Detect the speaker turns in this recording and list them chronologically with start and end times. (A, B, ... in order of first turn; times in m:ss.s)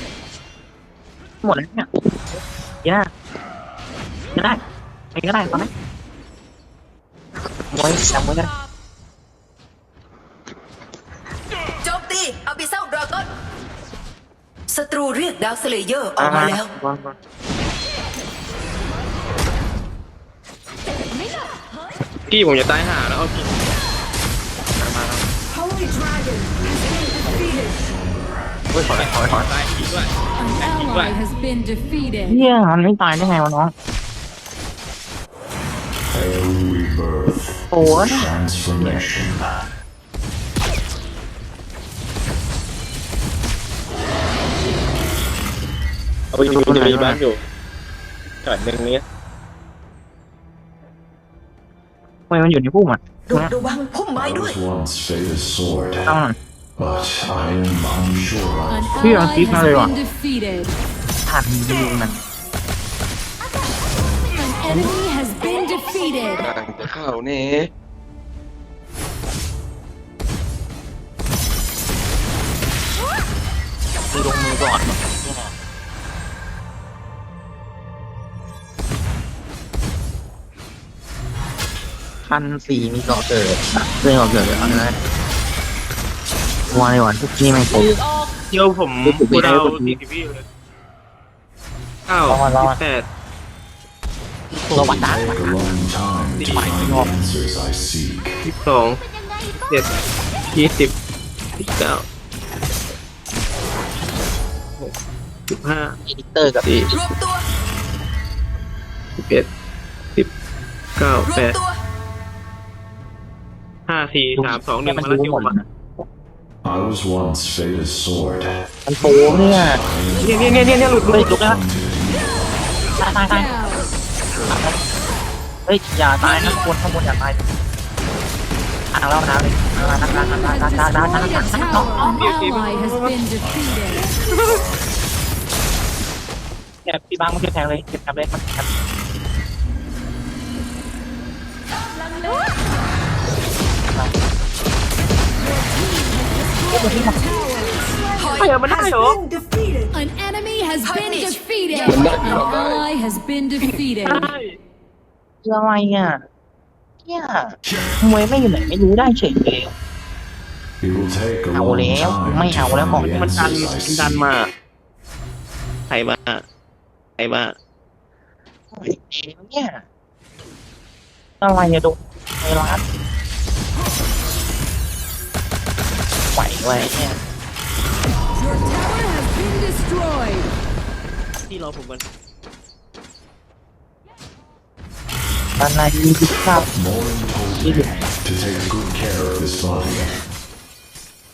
0:01.4-0:03.1 A
0:04.4-0:04.6 A
0:05.2-0:05.7 A
0:07.7-0:08.5 A
0:11.8-0:13.3 B
0:14.7-0:16.7 B
0:16.2-0:17.2 A
0:22.3-0:23.5 C
0:24.8-0:25.2 A
0:25.7-0:27.3 D
0:28.7-0:29.5 A
0:28.9-0:30.1 C
0:30.4-0:32.4 E
0:30.6-0:31.2 C
0:32.3-0:33.7 A
0:36.1-0:39.4 F
0:37.7-0:38.3 A
0:46.3-0:47.4 C
0:46.5-0:47.2 A
0:48.4-0:49.0 C
0:52.3-0:53.5 A
0:53.3-0:54.6 B
0:54.2-0:56.1 F
0:56.1-0:56.4 A
0:56.8-0:59.3 F
0:58.7-1:00.8 E
0:59.0-0:59.9 A
1:01.3-1:02.2 A
1:04.4-1:06.4 E
1:04.7-1:04.9 A
1:06.4-1:07.7 G
1:14.1-1:15.5 A
1:22.3-1:24.9 A
1:26.7-1:27.9 A
1:27.7-1:30.4 C
1:29.0-1:30.0 A
1:32.1-1:33.1 C
1:32.3-1:32.8 A
1:34.5-1:35.5 A
1:34.8-1:38.3 F
1:36.4-1:36.7 C
1:36.5-1:37.1 A
1:38.4-1:39.0 C
1:39.6-1:39.9 C
1:40.5-1:40.9 C
1:41.6-1:42.0 C
1:45.5-1:46.0 C
1:46.1-1:46.7 A
1:46.6-1:47.0 C
1:46.9-1:47.4 B
1:49.2-1:49.5 C
1:51.0-1:51.6 C
1:53.9-1:55.5 C
1:54.4-1:55.7 A
1:56.6-1:58.6 F
1:58.9-1:59.8 A
1:59.2-2:02.6 F
2:00.2-2:01.4 C
2:01.1-2:01.6 A
2:03.0-2:03.6 A
2:04.5-2:04.8 A
2:05.7-2:07.4 A
2:08.9-2:12.0 A
2:11.5-2:14.0 E
2:12.0-2:13.2 C
2:13.4-2:14.6 F
2:14.2-2:14.6 C
2:16.8-2:18.7 A
2:25.4-2:27.7 E
2:26.7-2:27.2 A
2:28.2-2:28.5 B
2:28.4-2:29.2 C
2:28.6-2:29.9 D
2:29.9-2:34.2 E
2:30.8-2:31.4 B
2:31.7-2:32.9 G
2:34.1-2:34.6 C
2:35.4-2:36.2 A
2:37.1-2:39.7 A
2:40.8-2:44.3 F
2:41.5-2:43.1 A
2:43.2-2:44.5 C
2:45.9-2:46.4 C
2:47.2-2:47.6 C
2:48.8-2:49.8 A
2:51.4-2:52.8 A
2:56.4-2:57.2 A
2:58.4-3:00.5 E
3:01.5-3:02.0 C
3:05.6-3:06.7 A
3:06.8-3:10.1 F
3:07.6-3:07.9 A